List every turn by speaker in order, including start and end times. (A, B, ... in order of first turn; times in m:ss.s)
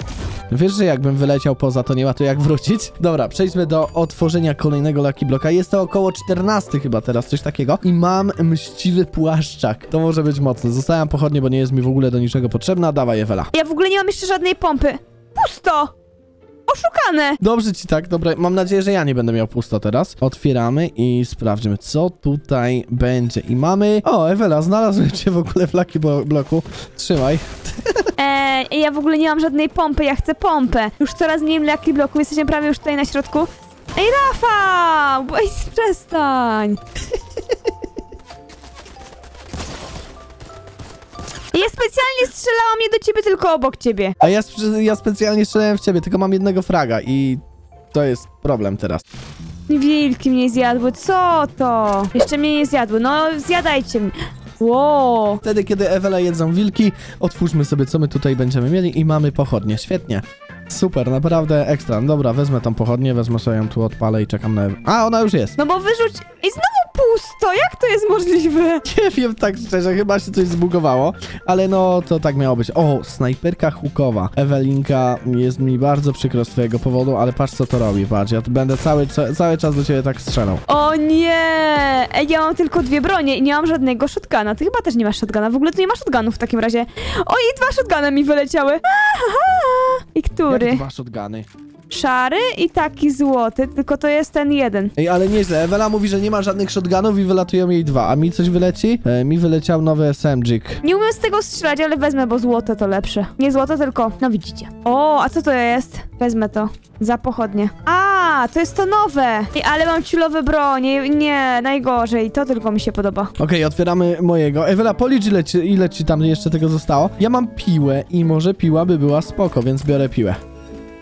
0:00.5-0:13.5 A
0:13.5-0:15.9 B
0:16.7-0:17.4 B
0:17.4-0:28.1 A
0:28.2-0:36.8 B
0:41.5-0:44.1 B
0:44.2-0:47.4 A
0:47.9-0:49.0 A
0:49.7-0:55.4 B
0:55.4-1:05.6 A
1:05.6-1:08.8 B
1:08.8-1:20.6 A
1:20.7-1:30.8 B
1:30.5-1:31.5 A
1:31.9-1:34.9 B
1:35.0-1:40.8 A
1:40.8-1:53.3 B
1:53.4-2:00.4 A